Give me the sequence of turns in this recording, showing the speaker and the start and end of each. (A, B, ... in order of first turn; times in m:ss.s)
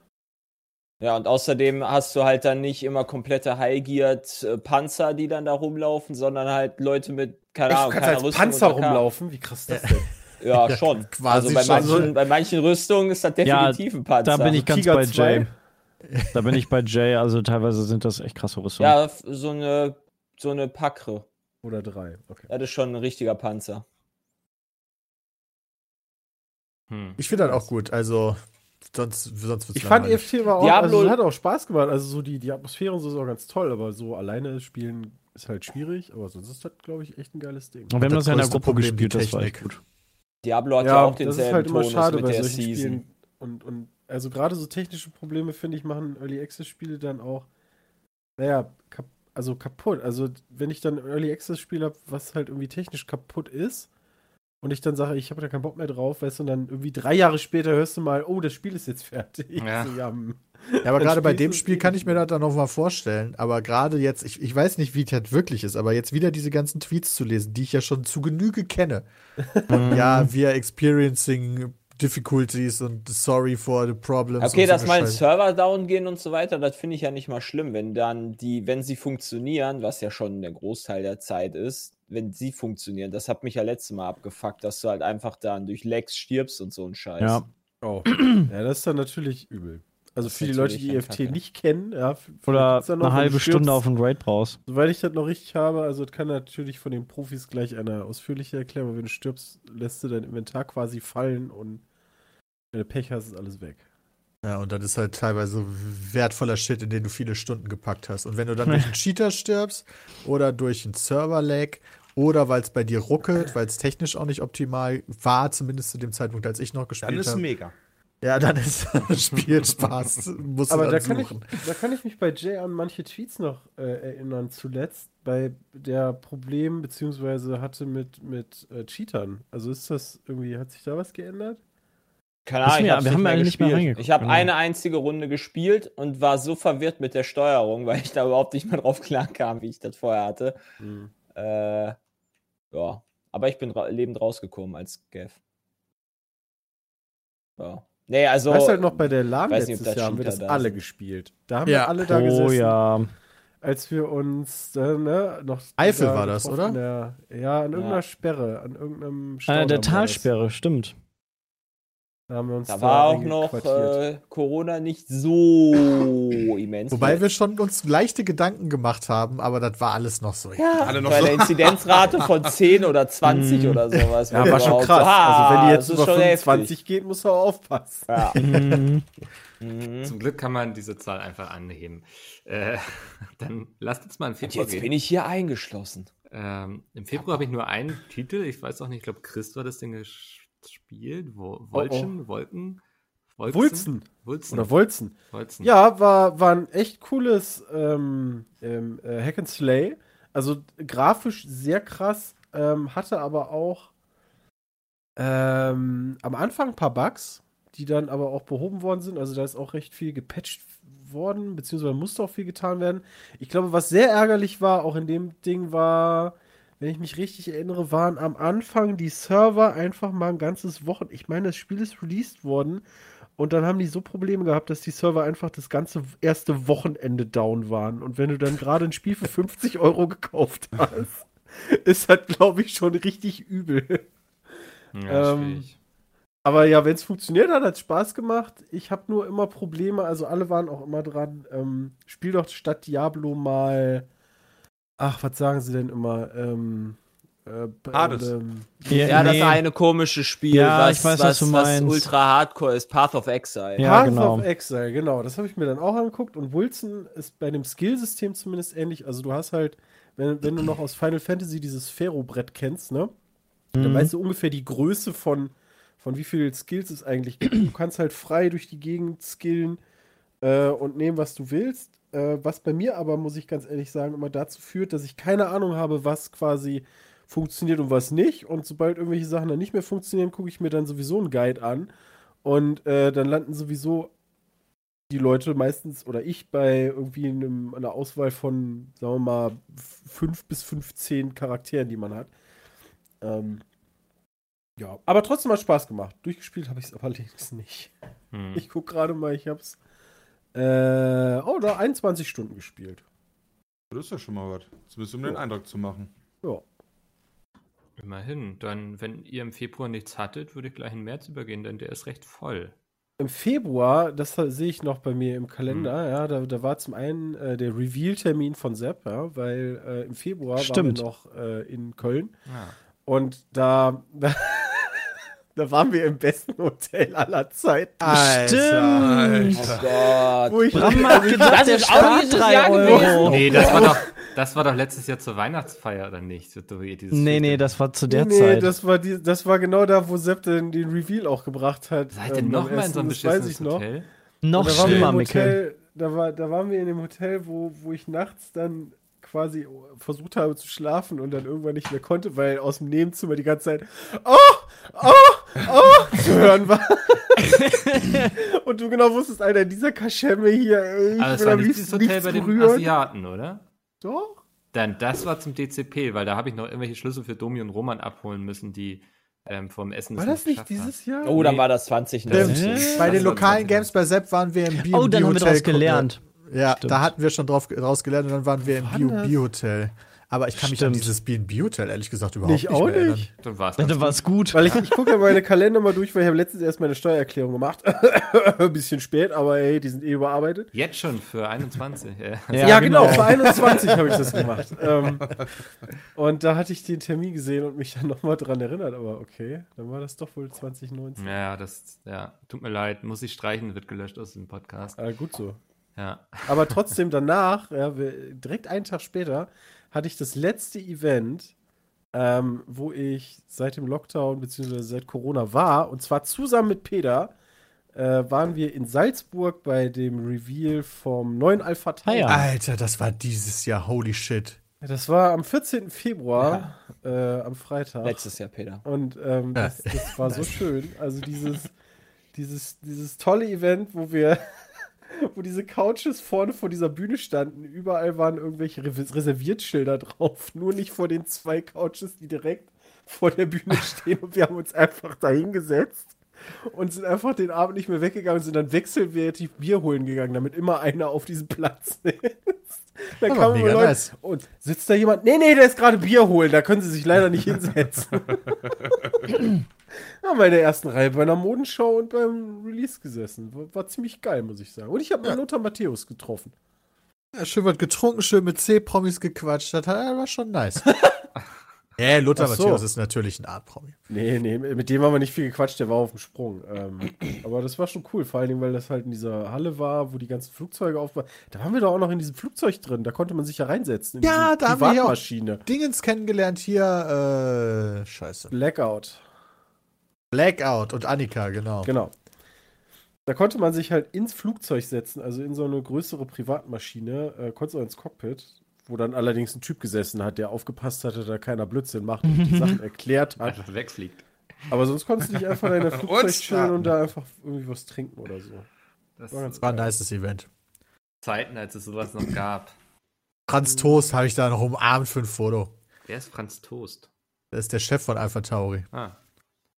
0:01.0-0:09.1 A
0:07.7-0:10.1 B
0:09.7-0:10.0 C
0:10.4-0:14.6 A
0:10.6-0:12.1 C
0:11.6-0:12.1 B
0:13.4-0:15.5 D
0:14.5-0:15.5 B
0:16.1-0:16.4 C
0:16.3-0:19.0 D
0:18.8-0:21.2 A
0:21.6-0:22.5 B
0:22.5-0:23.8 A
0:26.9-0:27.2 E
0:27.2-0:30.3 C
0:27.4-0:27.6 B
0:29.7-0:37.9 B
0:30.6-0:31.2 A
0:37.9-0:39.8 D
0:38.0-0:39.7 C
0:40.4-0:43.0 A
0:40.8-0:47.5 B
0:48.4-0:53.9 B
0:54.6-1:02.2 B
0:59.6-1:00.0 E
1:00.8-1:09.0 C
1:09.6-1:10.0 B
1:09.7-1:10.3 D
1:09.8-1:15.2 C
1:14.4-1:27.4 A
1:27.2-1:27.4 D
1:27.8-1:33.8 B
1:28.1-1:28.5 D
1:30.2-1:31.4 A
1:32.5-1:34.6 D
1:34.7-1:41.8 B
1:42.7-1:43.8 B
1:44.4-1:57.4 C
1:57.0-1:57.7 F
1:58.2-2:01.6 C
2:00.7-2:11.6 B
2:12.4-2:20.6 A
2:12.6-2:14.5 D
2:20.8-2:21.1 B
2:21.3-2:22.0 A
2:22.7-2:25.4 A
2:27.6-2:30.8 A
2:28.5-2:32.8 B
2:31.6-2:32.0 C
2:32.0-2:33.1 D
2:33.6-2:40.3 B
2:35.8-2:36.8 C
2:37.7-2:38.0 A
2:39.5-2:40.9 D
2:42.3-2:44.0 B
2:42.7-2:47.2 A
2:46.9-2:51.3 C
2:50.6-2:56.7 A
2:50.8-2:52.6 F
2:53.2-2:54.1 D
2:54.3-2:58.3 B
2:58.1-2:58.4 A
2:58.3-2:59.0 D
2:59.6-3:00.1 A
3:00.0-3:04.9 E
3:04.4-3:06.1 A
3:06.3-3:12.8 E
3:11.7-3:12.1 B
3:13.4-3:14.7 E
3:13.5-3:23.9 B
3:15.3-3:15.7 E
3:25.2-3:42.8 B
3:43.4-3:54.1 B
3:54.9-3:55.8 E
3:55.1-3:55.6 B
3:56.4-4:04.1 B
4:05.0-4:09.5 B
4:07.9-4:08.3 F
4:08.9-4:09.6 D
4:09.0-4:13.9 A
4:10.5-4:12.1 D
4:13.8-4:14.5 D
4:13.8-4:23.1 B
4:23.7-4:24.1 D
4:23.8-4:29.8 B
4:30.4-4:41.9 B
4:42.4-4:44.1 B
4:45.1-4:52.3 B
4:53.2-4:53.6 B
4:54.8-4:57.9 B
4:58.3-4:58.6 E
4:58.5-4:59.8 B
5:00.5-5:03.0 B
5:03.9-5:06.1 F
5:08.0-5:12.7 E
5:13.2-5:22.3 B
5:20.6-5:21.0 D
5:22.5-5:22.7 E
5:23.0-5:28.4 B
5:28.0-5:29.2 C
5:28.3-5:29.6 D
5:28.8-5:30.3 F
5:29.6-5:33.9 A
5:30.4-5:32.2 B
5:30.7-5:33.4 D
5:32.8-5:34.2 B
5:33.2-5:37.6 E
5:37.1-5:38.7 D
5:38.1-5:43.8 B
5:42.1-5:44.1 E
5:44.4-5:45.6 D
5:44.5-6:02.9 B
5:44.8-5:45.1 F
5:57.6-5:58.3 D
6:01.2-6:03.6 E
6:04.0-6:04.4 B
6:04.7-6:11.6 E
6:10.2-6:11.5 B
6:11.2-6:13.5 A
6:12.3-6:13.9 E
6:12.3-6:23.3 C
6:12.4-6:13.1 D
6:14.7-6:16.2 D
6:16.8-6:17.1 D
6:18.7-6:19.4 B
6:20.6-6:21.1 D
6:22.4-6:23.3 B
6:23.4-6:24.8 E
6:23.8-6:24.8 D
6:24.5-6:30.7 B
6:30.7-6:33.6 E
6:32.5-6:33.8 D
6:32.6-6:35.3 B
6:36.1-6:41.4 B
6:41.2-6:45.0 E
6:45.0-6:45.6 B
6:46.0-6:46.8 E
6:46.4-6:51.5 B
6:52.1-6:57.3 B
6:57.9-7:02.5 B
7:02.0-7:02.4 D
7:02.3-7:04.6 C
7:04.8-7:08.2 B
7:06.4-7:06.7 A
7:08.0-7:08.8 A
7:08.8-7:11.7 B
7:09.6-7:10.6 C
7:12.3-7:14.4 B
7:15.1-7:26.1 B
7:26.7-7:39.6 B
7:33.2-7:34.1 C
7:40.2-7:46.5 B
7:47.3-7:50.9 C
7:52.0-7:54.0 C
7:52.4-7:52.8 B
7:54.1-8:05.6 B
8:04.2-8:08.5 C
8:08.5-8:09.2 B
8:10.3-8:11.9 C
8:11.8-8:12.1 B
8:13.2-8:23.6 B
8:22.3-8:22.8 D
8:23.4-8:24.2 E
8:24.7-8:28.7 B
8:25.7-8:26.9 F
8:29.2-8:29.6 E
8:29.3-8:29.9 B
8:29.6-8:30.5 C
8:31.2-8:32.7 E
8:33.5-8:35.7 C
8:36.1-8:37.1 E
8:37.5-8:38.8 C
8:38.9-8:39.2 E